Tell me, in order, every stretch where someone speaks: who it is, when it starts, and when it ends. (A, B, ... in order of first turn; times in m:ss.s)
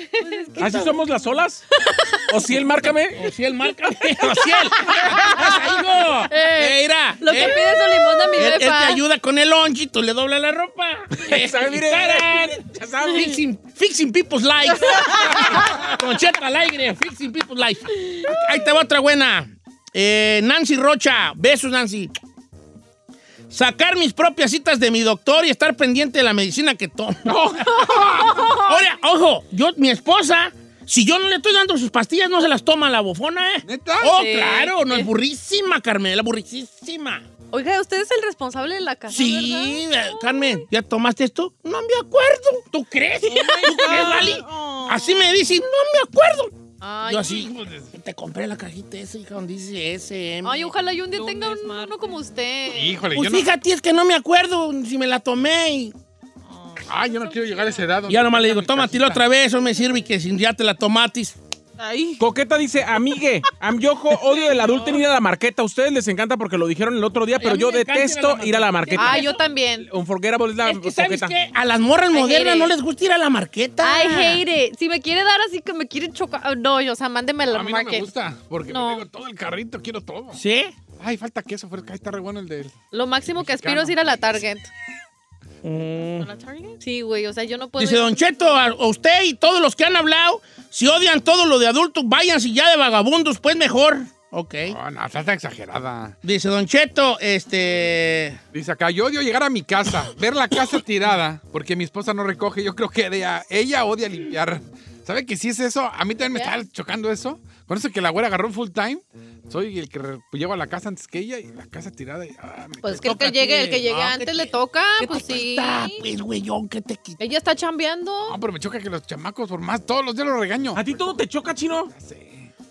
0:00.2-0:00.9 A
0:00.6-0:01.6 B
0:01.8-0:02.2 A
0:02.3-0:03.2 B
0:03.1-0:07.6 C
0:04.9-0:05.5 A
0:06.3-0:09.0 A
0:08.3-0:22.1 C
0:11.2-0:13.3 B
0:23.5-0:37.2 C
0:27.4-0:28.5 D
0:27.8-0:28.8 A
0:33.6-0:34.2 D
0:34.0-0:35.1 A
0:37.5-0:40.6 A
0:39.1-0:46.6 C
0:43.3-0:45.5 E
0:46.8-0:47.5 A
0:47.1-0:50.7 C
0:47.3-0:47.9 D
0:50.4-0:53.0 A
0:51.1-0:52.3 E
0:52.7-0:53.5 D
0:53.1-0:55.9 C
0:56.5-0:56.8 E
0:56.9-0:59.2 D
0:58.1-1:01.4 C
1:01.8-1:02.2 E
1:02.2-1:09.3 B
1:04.3-1:05.0 E
1:07.4-1:09.4 C
1:08.9-1:09.9 A
1:09.8-1:11.3 B
1:10.6-1:14.4 C
1:12.1-1:12.7 A
1:13.8-1:18.1 A
1:17.5-1:20.4 D
1:18.7-1:19.0 A
1:20.3-1:20.7 C
1:21.0-1:22.7 D
1:22.9-1:24.7 A
1:23.4-1:24.4 D
1:25.6-1:26.3 C
1:26.2-1:26.8 E
1:26.8-1:28.5 A
1:27.8-1:34.8 C
1:34.6-1:36.2 D
1:36.2-1:38.4 C
1:38.5-1:53.2 D
1:52.8-1:56.0 A
1:52.9-1:57.2 C
1:57.2-1:58.4 A
1:58.3-2:01.1 D
2:00.8-2:01.9 B
2:01.9-2:02.5 D